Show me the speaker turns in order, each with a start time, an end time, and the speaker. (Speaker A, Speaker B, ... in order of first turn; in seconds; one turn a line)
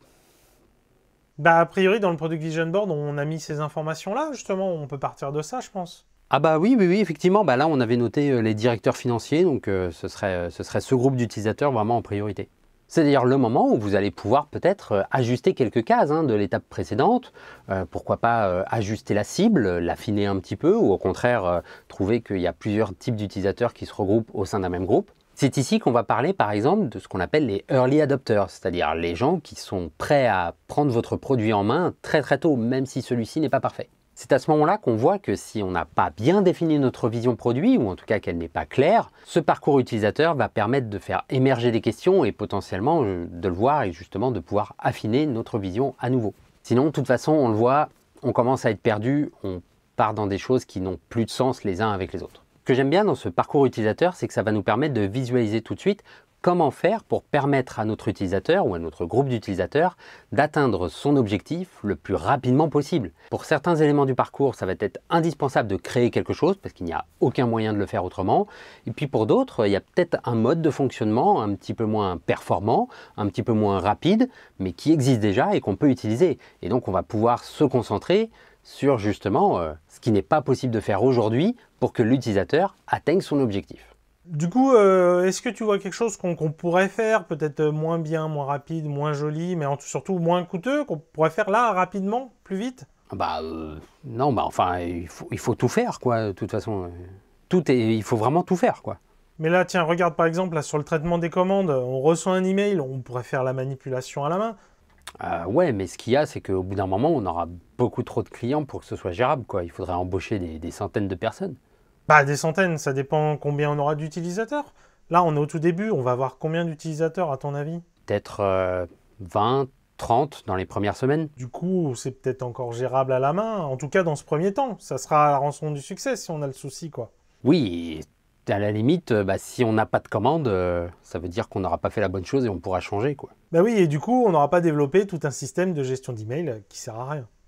Speaker A: 1.4-6.0
Speaker B: 6.3-83.9
Speaker A: 84.3-92.9
Speaker B: 93.1-96.9
Speaker B: 97.5-99.0
Speaker A: 99.4-104.6
Speaker B: 105.2-111.6
Speaker A: 112.1-117.8
Speaker B: 118.1-121.3
Speaker A: 121.4-127.1
Speaker B: 127.4-133.3
Speaker A: 133.5-137.3